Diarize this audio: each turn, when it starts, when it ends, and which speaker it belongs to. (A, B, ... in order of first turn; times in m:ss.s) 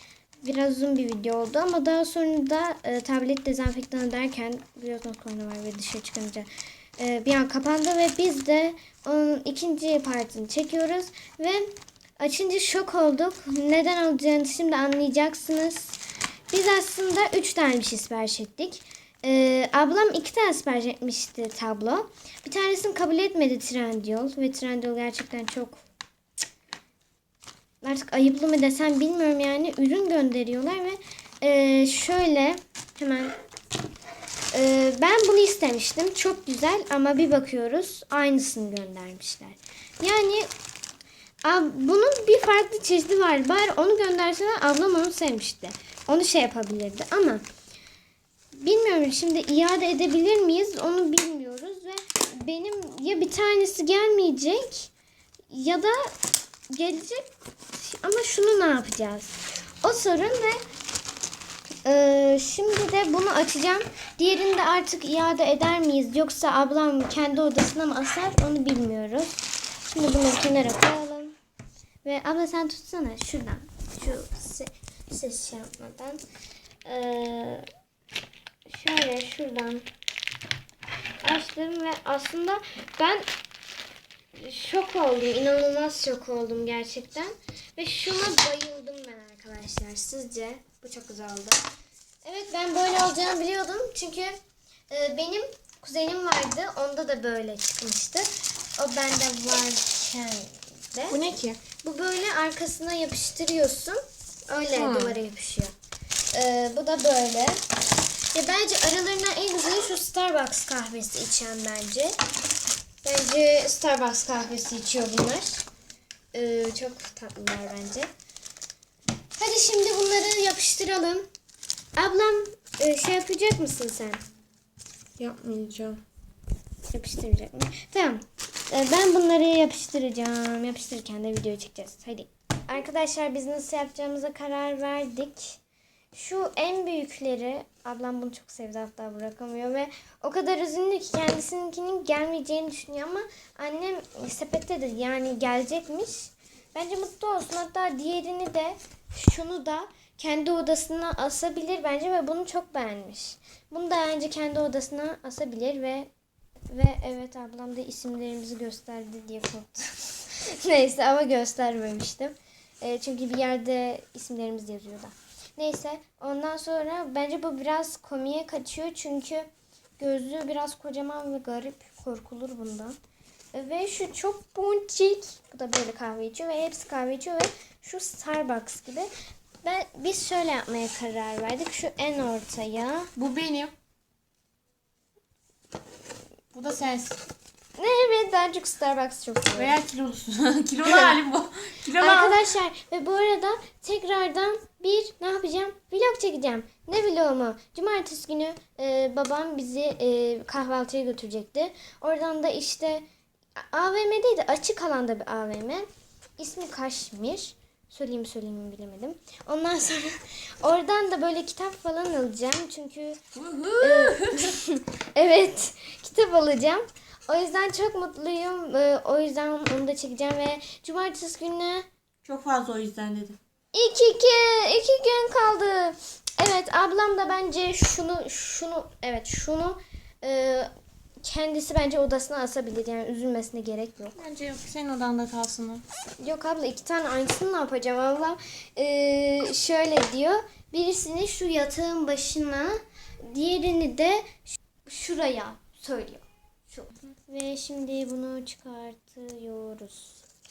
0:00.4-0:16.0 A
0:16.5-0:25.8 A
0:27.8-0:33.3 A
0:34.5-0:40.5 A
0:41.4-0:47.4 A
0:48.5-0:54.9 A
0:55.5-0:56.1 A
0:56.7-1:00.6 A
1:01.8-1:11.3 A
1:12.0-1:16.2 A
1:16.8-1:17.6 A
1:18.7-1:19.8 A
1:21.2-1:23.3 A
1:24.3-1:31.6 A
1:32.2-1:34.3 A
1:34.9-1:41.2 A
1:41.1-1:41.6 B
1:41.8-1:45.7 A
1:44.7-1:45.2 B
1:46.3-1:47.6 A
1:48.3-1:52.2 A
1:53.0-1:55.6 A
1:56.3-1:58.1 A
1:59.4-2:01.3 A
2:02.0-2:04.2 A
2:05.2-2:06.0 B
2:06.9-2:15.6 A
2:16.1-2:36.1 A
2:36.7-2:49.5 A
2:50.0-2:52.9 A
2:53.5-2:59.1 A
2:59.6-3:03.1 A
3:03.2-3:03.7 B
3:06.5-3:07.2 B
3:07.8-3:09.8 A
3:09.5-3:12.4 B
3:12.0-3:23.0 A
3:23.6-3:33.2 A
3:33.3-3:34.5 B
3:33.8-3:41.8 A
3:42.2-3:43.4 B
3:43.7-3:50.7 A
3:51.2-3:54.1 A
3:54.2-3:55.8 B
3:56.2-4:10.2 A